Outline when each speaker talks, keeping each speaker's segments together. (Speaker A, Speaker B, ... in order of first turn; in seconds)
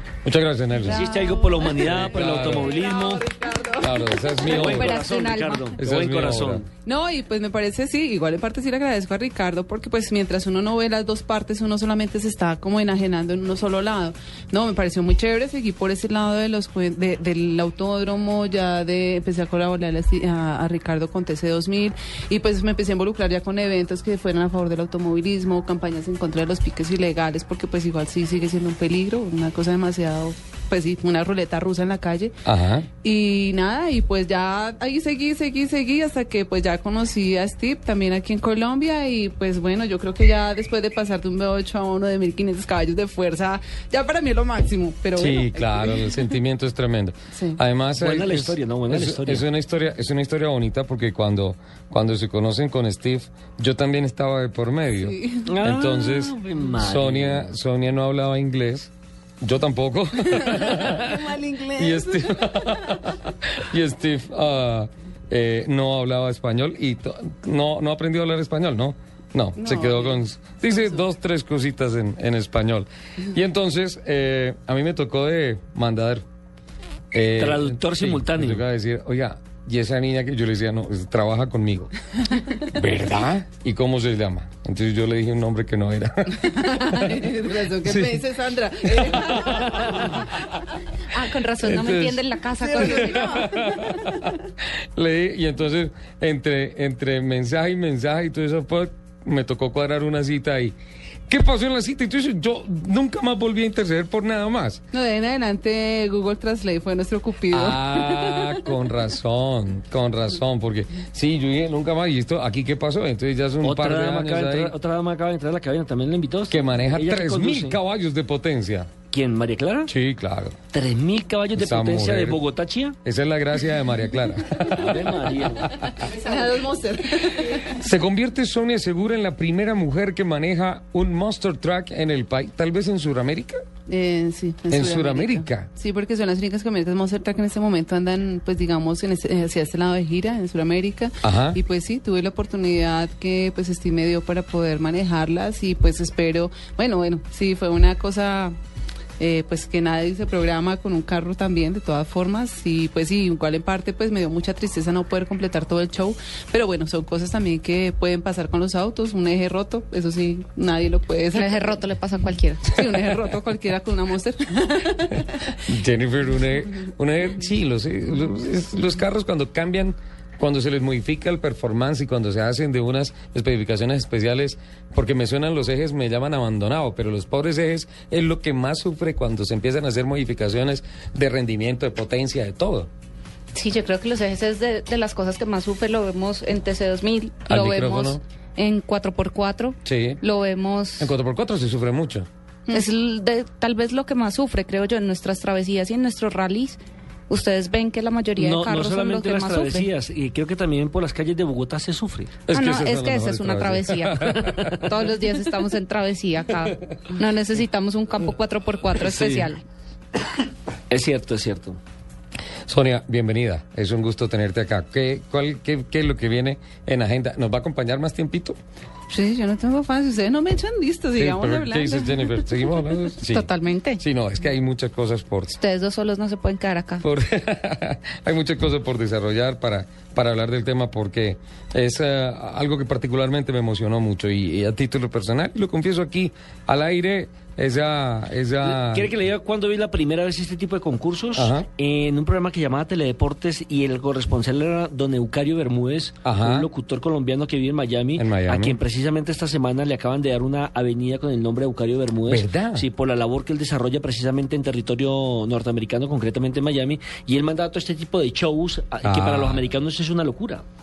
Speaker A: 0.2-1.0, 1.8-2.8, 3.8-5.0, 5.8-6.6, 32.4-32.9, 45.2-58.9, 59.4-61.2, 61.8-76.2, 77.1-81.9, 82.7-87.2, 87.8-88.2, 89.0-89.8, 91.6-92.2, 92.8-94.3, 95.0-100.7, 101.3-104.8, 107.5-114.7, 116.5-118.9, 119.9-120.5, 121.5-122.4, 123.0-126.0, 127.6-133.6, 134.7-135.7, 141.2-141.6, 165.7-182.9, 187.5-188.2, 189.8-190.2, 191.0-192.3, 202.5-204.9, 212.7-218.6, 221.2-225.6, 227.0-239.1, 241.3-241.7, 246.2-246.7, 248.2-248.8, 252.3-252.8, 259.0-259.6
Speaker B: 0.8-4.4, 6.8-32.4, 33.0-46.3, 47.3-47.6, 55.0-55.5, 60.3-62.8, 69.5-71.0, 82.3-82.6, 86.3-90.5, 92.6-94.2, 104.9-108.7, 126.0-127.7, 133.9-148.5, 149.2-161.8, 162.7-165.5, 219.1-222.7
Speaker C: 0.8-3.2, 4.4-6.7, 48.0-49.5, 55.5-57.5, 77.4-78.6, 113.6-117.8, 119.1-119.9, 120.7-123.0, 124.7-125.8, 198.4-202.4, 209.0-209.5, 210.9-211.8, 238.6-260.6
Speaker D: 4.4-5.8, 91.1-93.2, 161.3-162.9, 183.5-191.1, 192.7-199.9, 202.5-209.6, 223.3-224.0, 225.6-227.0